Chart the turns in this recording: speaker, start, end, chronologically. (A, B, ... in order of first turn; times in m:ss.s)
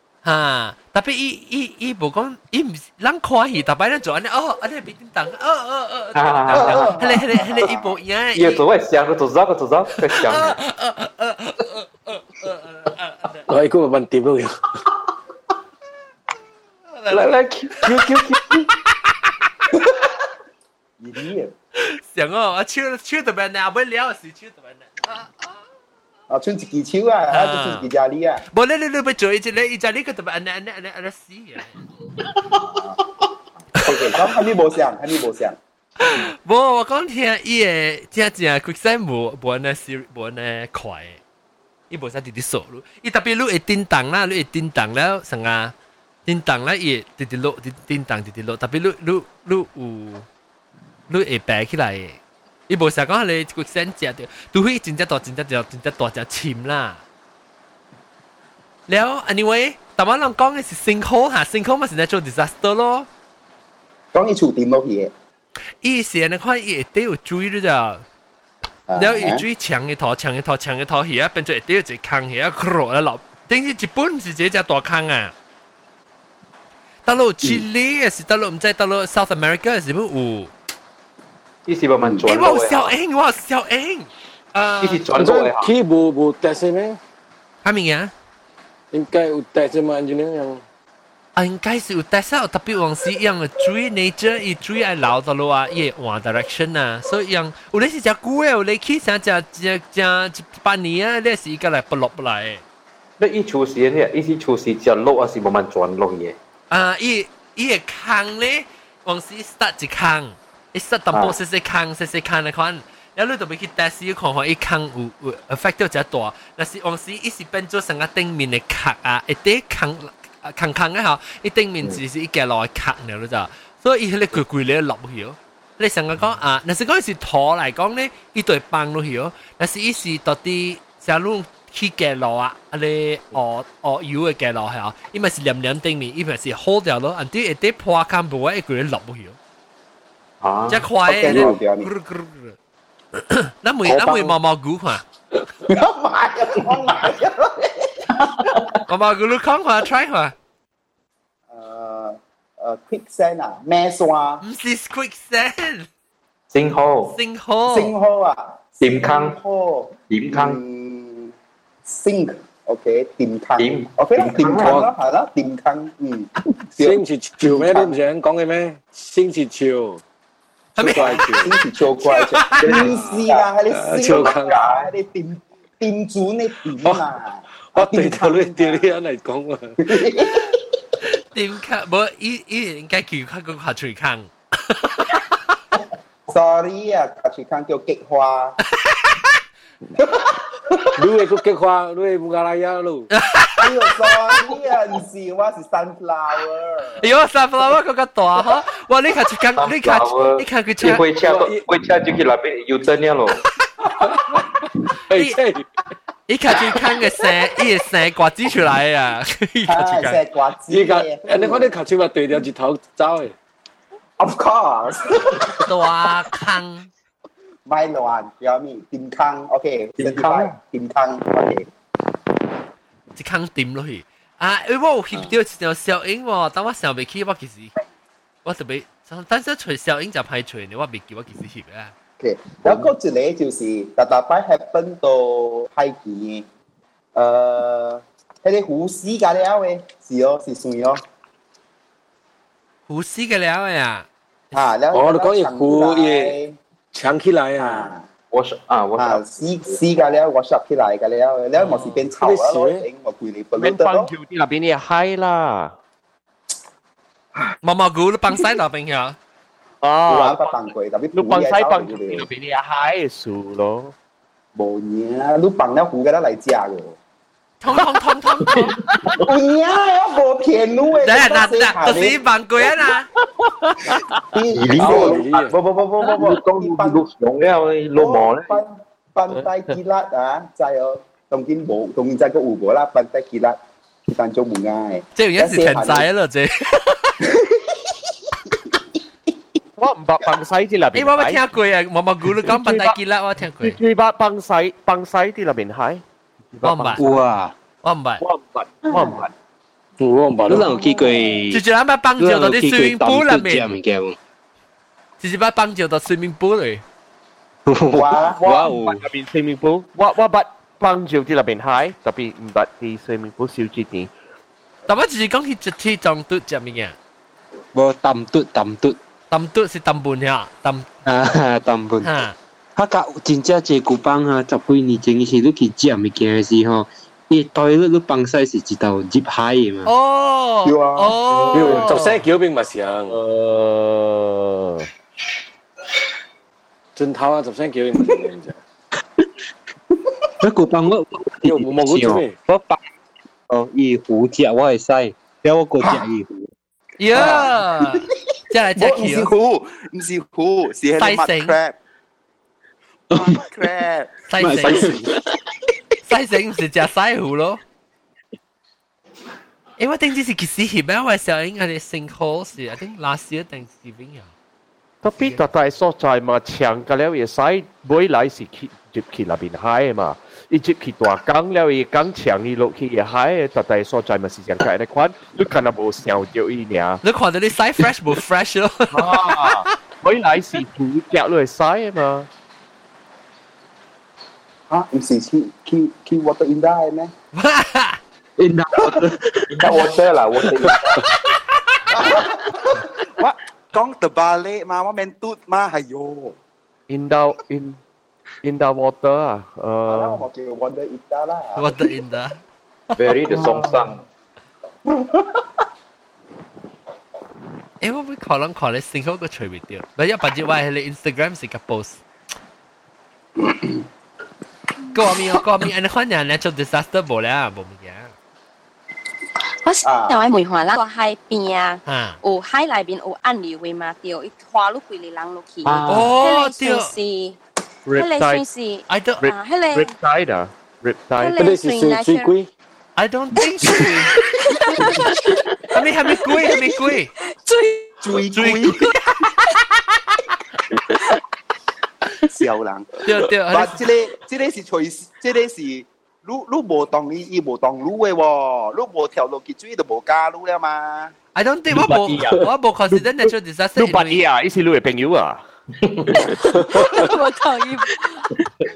0:00.2-0:08.6 A
0:06.1-0:07.0 B
0:06.5-0:07.7 C
0:08.3-0:10.6 B
0:10.1-0:13.4 A
0:13.5-0:14.5 D
0:16.9-0:17.3 A
0:17.1-0:18.7 B
0:19.1-0:19.7 A
0:21.0-0:21.5 C
0:21.8-0:25.6 A
0:26.3-0:28.4 C
0:27.3-0:27.9 A
0:28.5-0:31.8 A
0:32.5-0:33.0 C
0:33.8-0:35.6 C
0:36.0-0:41.2 A
0:41.9-0:45.7 A
0:46.2-0:50.2 A
0:51.1-0:57.0 A
0:58.9-1:03.1 A
1:04.1-1:05.1 C
1:05.8-1:08.0 A
1:08.9-1:09.4 C
1:08.9-1:15.3 A
1:17.0-1:20.5 A
1:21.6-1:22.9 B
1:22.2-1:25.0 A
1:24.8-1:25.7 B
1:25.1-1:27.0 D
1:27.6-1:28.1 A
1:28.9-1:30.6 D
1:31.4-1:42.6 A
1:43.2-1:46.4 B
1:46.7-2:19.4 A
2:20.4-2:21.5 B
2:20.7-2:22.6 A
2:21.0-2:21.9 C
2:23.2-2:25.0 A
2:25.7-2:28.0 C
2:28.9-2:30.3 A
2:31.5-2:34.4 C
2:34.4-2:35.9 A
2:36.5-2:37.2 B
2:37.1-2:37.9 A
2:37.7-2:41.3 C
2:38.8-2:39.4 B
2:40.1-2:40.6 B
2:41.8-2:47.9 C
2:43.6-2:44.8 B
2:44.6-2:44.9 D
2:46.8-2:50.0 D
2:50.8-2:52.9 A
2:50.8-2:51.5 D
2:50.9-2:58.9 C
2:52.6-2:53.4 B
2:52.7-2:53.1 D
2:53.7-2:54.6 D
2:54.0-2:54.9 B
2:57.7-2:59.8 D
2:59.8-3:00.6 C
3:01.0-3:05.6 A
3:06.3-3:08.6 C
3:08.8-3:09.4 A
3:11.0-3:13.1 D
3:13.1-3:13.9 A
3:13.6-3:17.1 C
3:17.0-3:21.0 A
3:19.6-3:23.4 B
3:21.2-3:21.6 D
3:25.1-3:25.6 D
3:25.1-3:25.4 A
3:26.3-3:30.2 A
3:29.7-3:31.7 C
3:30.7-3:33.3 D
3:34.2-3:35.5 C
3:35.6-3:36.9 A
3:37.6-3:41.7 C
3:40.0-3:40.6 B
3:43.2-3:47.7 A
3:48.4-3:51.9 A
3:52.2-3:56.4 C
3:57.1-4:01.0 C
4:02.9-4:04.6 A
4:04.5-4:06.6 C
4:04.9-4:06.3 D
4:06.9-4:07.9 D
4:07.6-4:08.1 C
4:08.3-4:10.1 B
4:09.0-4:14.1 C
4:11.6-4:12.0 A
4:12.1-4:12.8 D
4:13.6-4:15.7 E
4:17.6-4:19.2 A
4:19.8-4:20.6 E
4:20.1-4:22.3 C
4:21.1-4:23.9 E
4:24.5-4:27.0 C
4:27.6-4:28.8 A
4:29.2-4:32.2 C
4:31.0-4:33.1 A
4:34.3-4:37.0 C
4:34.5-4:38.6 B
4:34.8-4:35.5 D
4:38.0-4:46.1 C
4:45.1-4:47.2 A
4:47.4-4:47.6 C
4:49.8-4:51.4 E
4:50.9-4:53.8 A
4:52.4-4:53.0 E
4:53.6-4:56.0 E
4:56.5-4:57.2 E
4:56.6-4:57.0 A
4:57.0-4:57.5 F
4:57.8-4:58.2 A
4:58.2-4:59.3 E
4:58.9-4:59.2 C
5:00.0-5:00.7 D
5:00.5-5:01.6 F
5:00.7-5:01.1 C
5:01.5-5:03.7 A
5:02.2-5:04.2 F
5:05.2-5:06.8 A
5:07.6-5:09.0 F
5:07.9-5:08.4 C
5:08.3-5:14.1 E
5:14.9-5:16.9 A
5:17.7-5:19.0 F
5:19.3-5:20.9 A
5:21.0-5:22.1 F
5:22.0-5:22.4 A
5:22.8-5:29.9 F
5:29.8-5:32.2 A
5:30.6-5:31.8 C
5:31.5-5:33.2 D
5:33.0-5:34.9 E
5:37.0-5:38.6 D
5:40.4-5:42.8 F
5:41.4-5:42.4 D
5:43.5-5:46.5 F
5:47.0-5:49.3 A
5:47.1-5:47.5 C
5:48.8-5:51.8 C
5:51.0-5:51.6 A
5:53.1-5:54.1 C
5:53.1-5:53.4 F
5:54.3-5:55.0 A
5:54.4-5:55.1 F
5:56.0-5:57.6 A
5:59.8-6:04.3 A
6:05.0-6:17.0 E
6:05.2-6:05.4 A
6:17.0-6:19.7 A
6:18.9-6:22.3 E
6:24.7-6:27.1 C
6:27.3-6:28.0 A
6:28.4-6:29.6 F
6:29.5-6:31.0 B
6:31.9-6:36.4 C
6:36.9-6:37.8 E
6:38.4-6:40.2 E
6:39.8-6:41.8 C
6:41.6-6:42.4 A
6:42.9-6:44.0 B
6:47.8-6:52.0 A
6:54.9-6:58.1 A
6:59.6-7:07.4 G
6:59.8-7:00.2 C
7:01.8-7:02.2 A
7:05.6-7:06.2 B
7:05.9-7:06.9 A
7:07.8-7:08.4 E
7:07.9-7:09.9 G
7:08.9-7:09.3 A
7:09.2-7:11.4 E
7:11.2-7:12.3 G
7:11.4-7:12.5 D
7:13.0-7:14.1 A
7:14.4-7:15.4 G
7:15.7-7:17.1 A
7:17.2-7:17.9 G
7:18.0-7:18.9 C
7:18.3-7:19.2 A
7:22.2-7:22.9 C
7:23.0-7:23.8 A
7:23.5-7:31.1 C
7:31.3-7:34.2 A
7:31.8-7:35.4 E
7:36.8-7:38.2 G